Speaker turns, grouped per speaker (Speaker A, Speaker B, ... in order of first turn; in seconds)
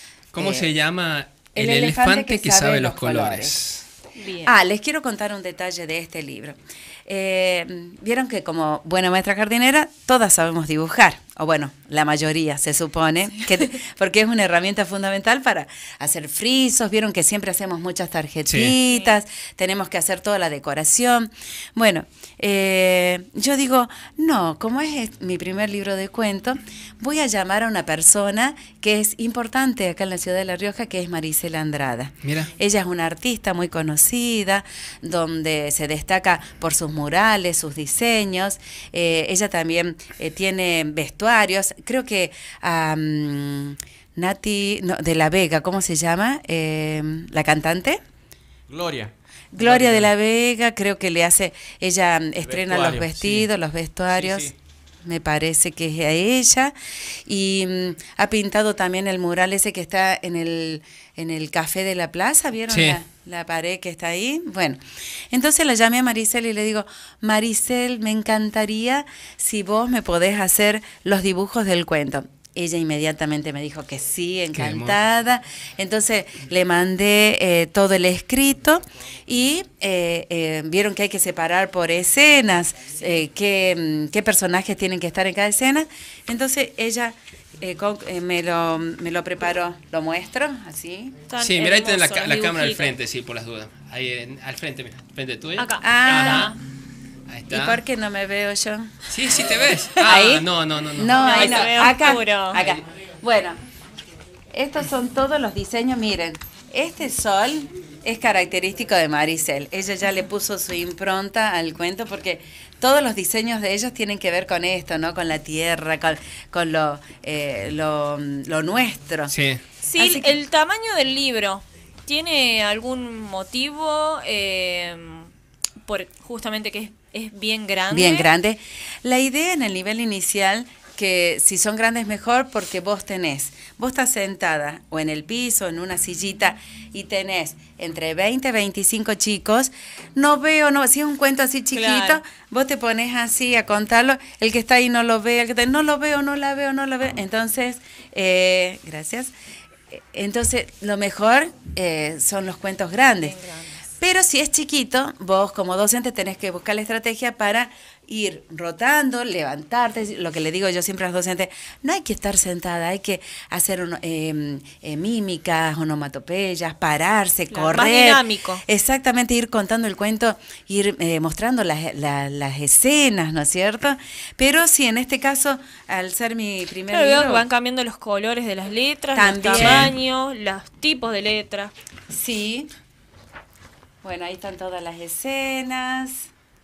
Speaker A: 0.3-3.9, 18.5-18.8, 32.2-32.5, 62.7-63.0, 74.5-75.0, 91.4-96.5, 97.3-97.8, 99.1-101.9, 102.5-102.8, 119.3-119.6, 179.6-179.9
Speaker B: 0.4-0.7, 1.6-3.6, 4.4-48.0, 49.5-54.5, 55.0-56.7, 57.3-91.2, 95.8-96.5, 97.5-98.9, 100.0-103.6, 104.5-119.3, 120.0-120.4, 127.9-149.3, 149.9-153.4, 154.0-177.5, 179.1-180.0, 182.1-182.7, 184.0-186.3
Speaker C: 4.2-4.5, 18.9-19.2, 91.3-92.9, 95.6-96.6, 101.2-102.6, 119.8-125.3, 125.9-128.3, 141.7-142.2, 153.2-153.9, 167.5-168.6, 176.9-181.7
Speaker D: 48.7-50.1, 52.4-53.5, 54.1-54.5